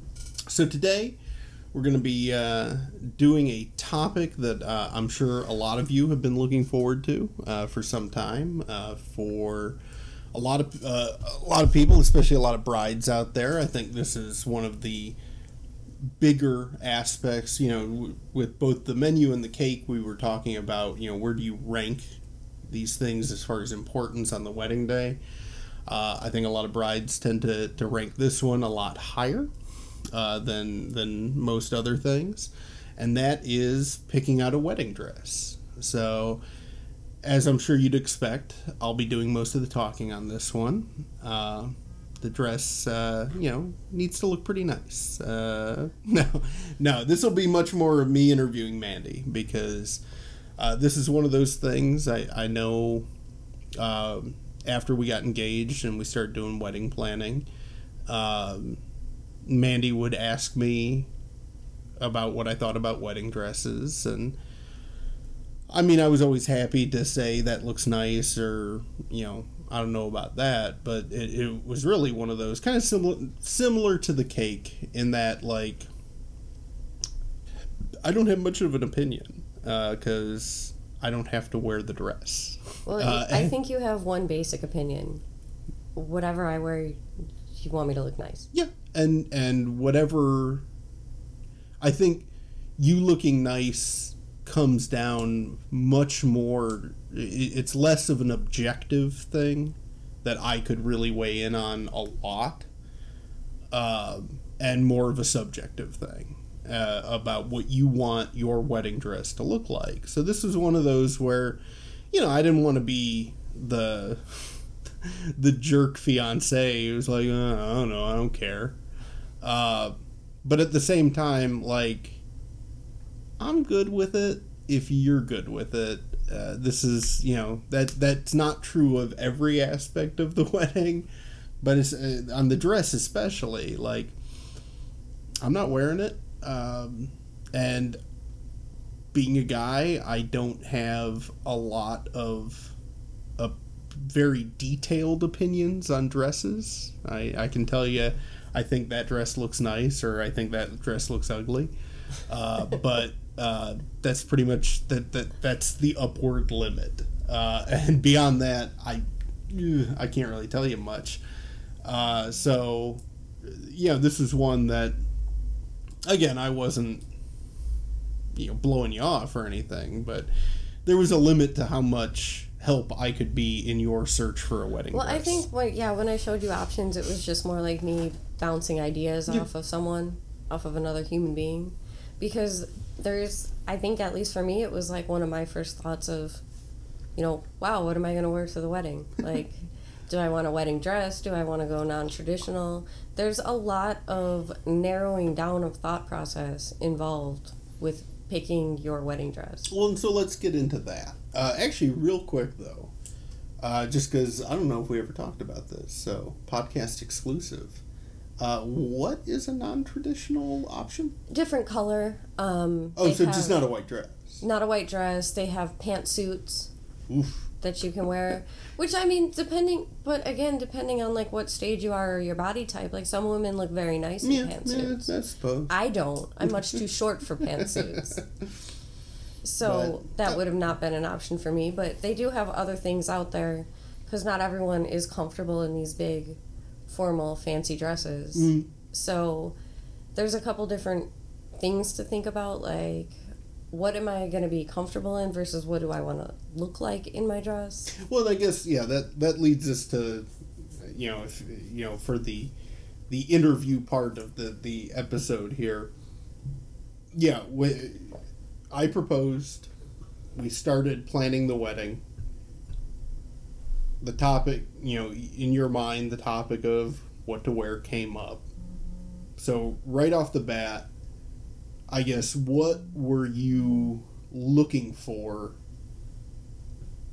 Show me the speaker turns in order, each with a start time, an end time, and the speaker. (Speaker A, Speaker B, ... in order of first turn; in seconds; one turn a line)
Speaker A: 0.5-1.2
Speaker A: 1.7-9.8
Speaker A: 10.3-15.2
Speaker A: 16.0-22.2
Speaker A: 22.7-25.2
Speaker A: 25.9-29.5
Speaker A: 30.1-36.4
Speaker A: 37.2-50.0
Speaker A: 50.6-53.1
Speaker A: 53.8-57.5
Speaker A: 58.1-58.8
Speaker A: 59.4-61.1
Speaker A: 62.0-64.4
Speaker A: 65.7-75.9
Speaker A: 78.0-83.5
Speaker B: 82.9-85.2
Speaker B: 85.9-87.0
Speaker B: 87.5-88.5
Speaker A: 88.5-90.6
Speaker A: 91.8-102.7
Speaker A: 103.7-111.6
Speaker A: 112.1-118.8
Speaker A: 119.4-122.2
Speaker A: 123.4-131.1
Speaker A: 131.6-134.2
Speaker A: 135.4-138.0
Speaker A: 139.1-142.8
Speaker A: 143.4-151.7
Speaker A: 152.3-161.2
Speaker A: 161.8-164.9
Speaker A: 166.0-167.1
Speaker A: 168.3-170.3
Speaker A: 170.8-175.4
Speaker B: 174.9-186.4
Speaker B: 187.2-199.7
Speaker A: 199.7-202.9
Speaker A: 203.6-207.8
Speaker A: 208.4-211.2
Speaker B: 211.3-213.6
Speaker A: 212.9-214.4
Speaker B: 214.4-216.7
Speaker A: 217.1-217.5
Speaker B: 217.6-225.1
Speaker A: 224.2-225.7
Speaker B: 225.7-228.2
Speaker A: 226.4-226.8
Speaker A: 227.4-228.5
Speaker B: 229.4-239.6
Speaker A: 229.6-230.4
Speaker A: 238.3-238.7
Speaker B: 240.1-243.2
Speaker B: 243.7-247.9
Speaker A: 247.9-250.3
Speaker A: 250.8-252.5
Speaker A: 253.1-255.9
Speaker A: 257.1-258.2
Speaker A: 258.7-259.7
Speaker A: 260.3-262.0
Speaker A: 264.0-268.4
Speaker A: 269.4-270.9
Speaker A: 271.9-275.6